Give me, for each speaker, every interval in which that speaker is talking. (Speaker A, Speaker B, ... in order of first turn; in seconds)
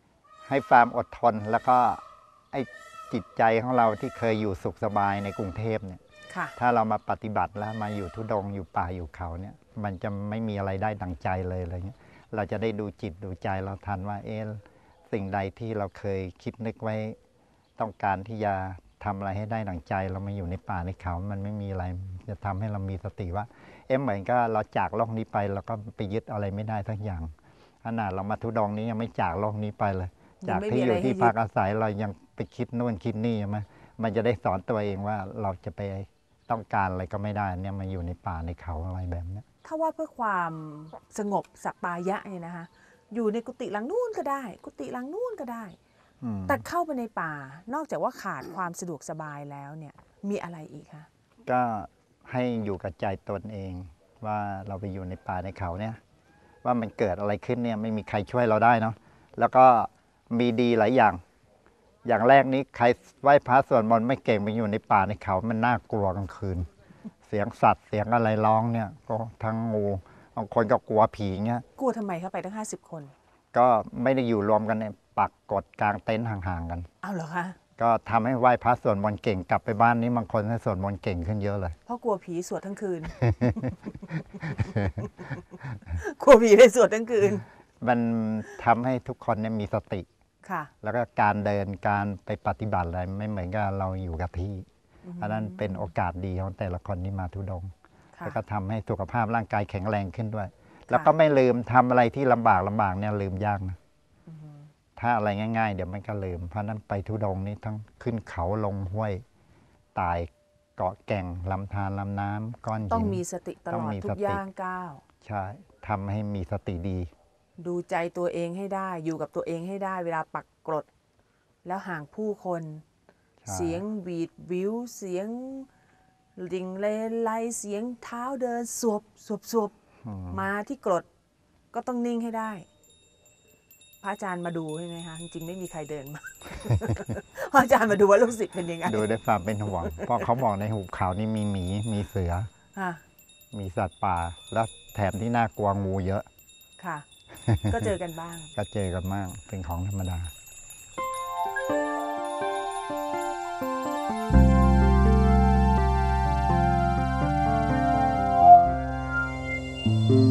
Speaker A: 0.5-6.0, 6.6-17.2, 17.8-27.3, 27.8-39.4, 46.2-46.6, 51.5-56.0, 56.6-61.2, 62.0-66.7, 67.2-71.6, 73.5-76.9, 77.8-81.8, 83.3-83.6, 84.7-85.0, 87.8-90.1, 90.8-94.7, 95.2-97.7, 98.2-103.8, 105.0-109.2, 109.9-114.4, 115.2-117.1, 123.4-123.8, 130.0-130.4, 138.8-142.5, 143.5-146.2, 147.4-147.9, 148.6-150.3
Speaker B: 6.3-6.5, 30.4-31.3, 39.6-45.8, 46.5-51.1, 71.8-73.1, 77.0-77.6, 81.8-87.4, 90.4-90.7, 95.0-95.9, 104.3-104.7, 112.9-115.0, 117.6-120.9, 121.6-122.8, 123.5-125.7, 126.3-129.7, 130.3-131.1, 131.7-132.7, 134.0-139.1, 139.8-140.3, 142.7-143.0, 146.8-147.1, 147.7-148.5